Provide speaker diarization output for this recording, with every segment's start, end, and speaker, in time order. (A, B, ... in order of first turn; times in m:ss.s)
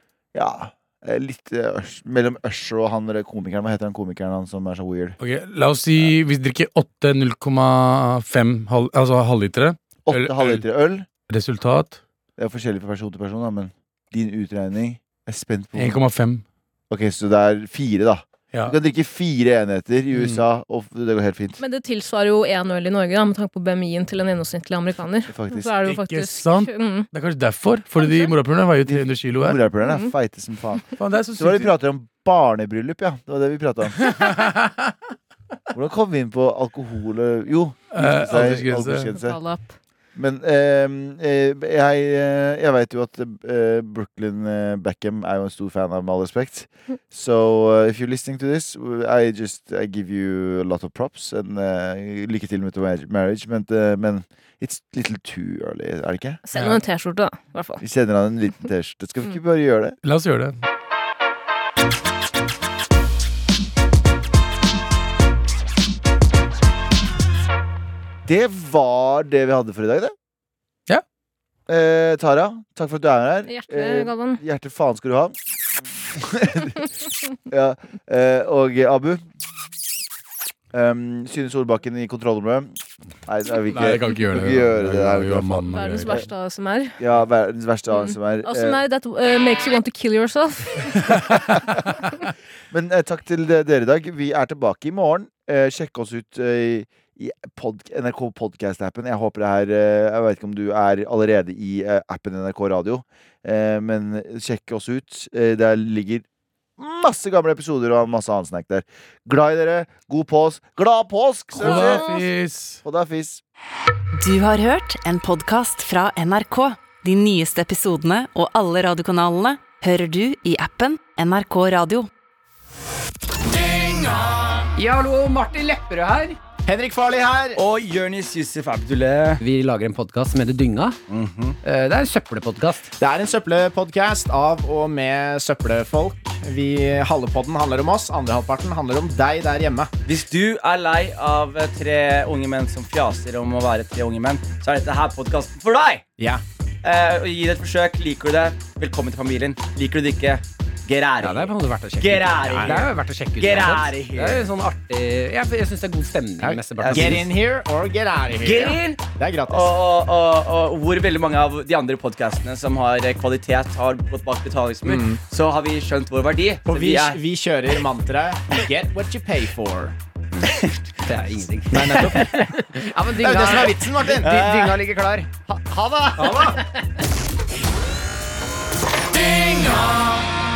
0:00.3-0:05.2 A
0:05.2-0:10.6 B
0:10.0-0:11.1 A
0:11.3-0:12.0 B
0:12.4-0:16.0 A
0:15.8-0:16.4 B
0:16.9-0:21.6 A
0:20.1-0:20.4 B
0:21.6-0:27.1 C
0:25.3-0:25.7 A
0:25.8-0:29.6 B
0:28.0-0:28.3 C
0:28.8-0:34.2 A
0:29.8-0:30.1 C
0:31.0-0:31.7 B
0:34.0-0:34.9 B
0:35.7-0:39.4 A
0:37.9-0:39.1 B
0:39.2-0:39.7 C
0:40.1-0:56.4 A
0:56.4-0:57.8 C
0:56.5-0:56.8 B
0:57.8-1:00.0 A
1:00.0-1:00.6 B
1:08.2-1:10.1 A
1:11.7-1:16.8 A
1:13.5-1:14.4 C
1:17.5-1:19.2 A
1:20.7-1:26.2 A
1:23.7-1:26.2 B
1:25.7-1:27.0 C
1:27.0-1:28.8 A
1:27.9-1:31.3 C
1:31.1-1:31.4 B
1:32.7-1:46.2 A
1:46.8-1:52.0 A
1:51.6-1:52.8 B
1:51.6-1:52.3 C
1:52.8-1:53.4 A
1:54.2-2:02.1 D
2:04.8-2:06.4 E
2:06.6-2:07.6 F
2:07.6-2:09.4 G
2:09.4-2:11.0 E
2:11.1-2:11.6 G
2:11.6-2:12.9 E
2:13.0-2:19.9 F
2:20.0-2:26.0 G
2:26.2-2:26.4 F
2:26.8-2:34.5 G
2:31.2-2:37.2 E
2:36.4-2:39.8 F
2:36.8-2:37.3 G
2:38.3-2:47.2 G
2:46.7-2:49.9 F
2:51.0-2:54.7 E
2:53.2-2:55.0 F
2:54.0-2:54.8 G
2:55.6-2:56.0 A
2:56.2-2:56.5 G
2:56.2-2:56.6 F